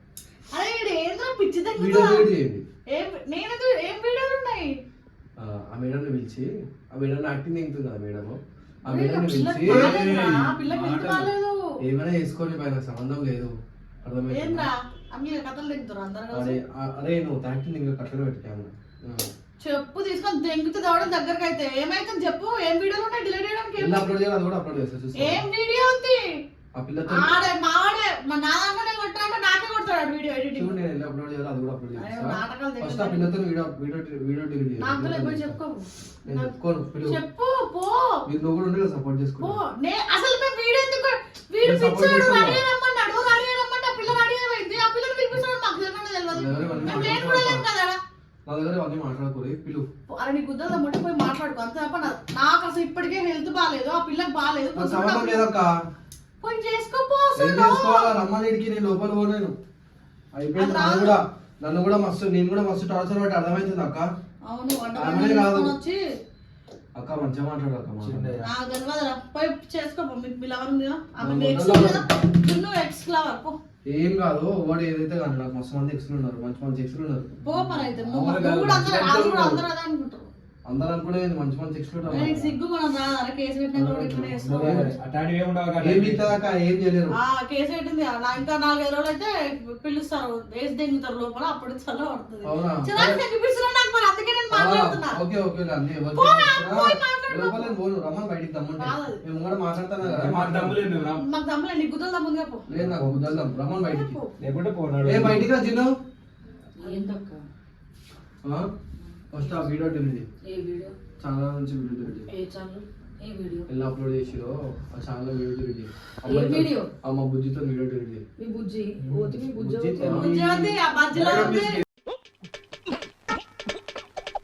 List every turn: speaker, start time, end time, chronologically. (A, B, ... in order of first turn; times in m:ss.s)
0:00.5-0:02.3 A
0:01.8-0:02.6 B
0:02.9-0:04.8 A
0:05.4-0:10.1 B
0:08.9-0:11.6 A
0:09.6-0:11.3 C
0:11.8-0:13.5 B
0:14.0-0:14.7 B
0:14.3-0:16.6 A
0:16.3-0:19.3 B
0:19.6-0:24.1 A
0:23.8-0:25.4 B
0:25.2-0:26.4 A
0:26.8-0:27.4 B
0:27.1-0:30.8 A
0:30.5-0:35.6 B
0:32.0-0:33.3 A
0:34.8-0:36.5 A
0:36.3-0:37.2 B
0:37.0-0:38.2 A
0:38.3-0:39.5 B
0:39.4-0:48.0 A
0:41.6-0:42.6 B
0:46.3-0:47.6 B
0:46.6-0:47.0 C
0:48.5-0:49.9 B
0:50.1-0:55.4 A
0:54.7-0:55.7 B
0:56.4-0:58.2 A
0:57.4-0:59.6 B
1:00.3-1:04.0 B
1:00.5-1:01.2 A
1:04.5-1:06.0 A
1:04.9-1:05.7 B
1:07.0-1:08.4 B
1:08.0-1:08.5 C
1:08.4-1:13.6 A
1:11.2-1:12.0 B
1:13.9-1:17.4 B
1:17.4-1:20.3 A
1:18.0-1:19.6 B
1:20.7-1:22.5 B
1:22.1-1:22.4 C
1:22.1-1:24.8 A
1:23.7-1:24.9 B
1:24.5-1:26.4 C
1:25.8-1:27.2 B
1:27.1-1:35.2 A
1:32.4-1:33.2 B
1:34.5-1:40.8 B
1:36.1-1:37.8 A
1:38.8-1:39.2 A
1:40.0-1:41.2 C
1:41.2-1:42.6 A
1:42.7-1:44.2 B
1:42.7-1:43.3 C
1:43.8-1:44.3 A
1:44.4-1:45.5 C
1:45.0-1:46.0 B
1:46.8-1:47.4 D
1:48.4-1:48.7 B
1:49.3-1:50.3 B
1:50.4-1:50.9 D
1:51.2-1:52.3 B
1:52.3-1:53.7 D
1:53.7-1:58.2 B
1:56.2-1:56.9 D
1:58.4-2:00.3 D
1:59.0-1:59.3 C
1:59.5-2:01.6 B
2:00.1-2:01.8 A
2:01.1-2:01.8 C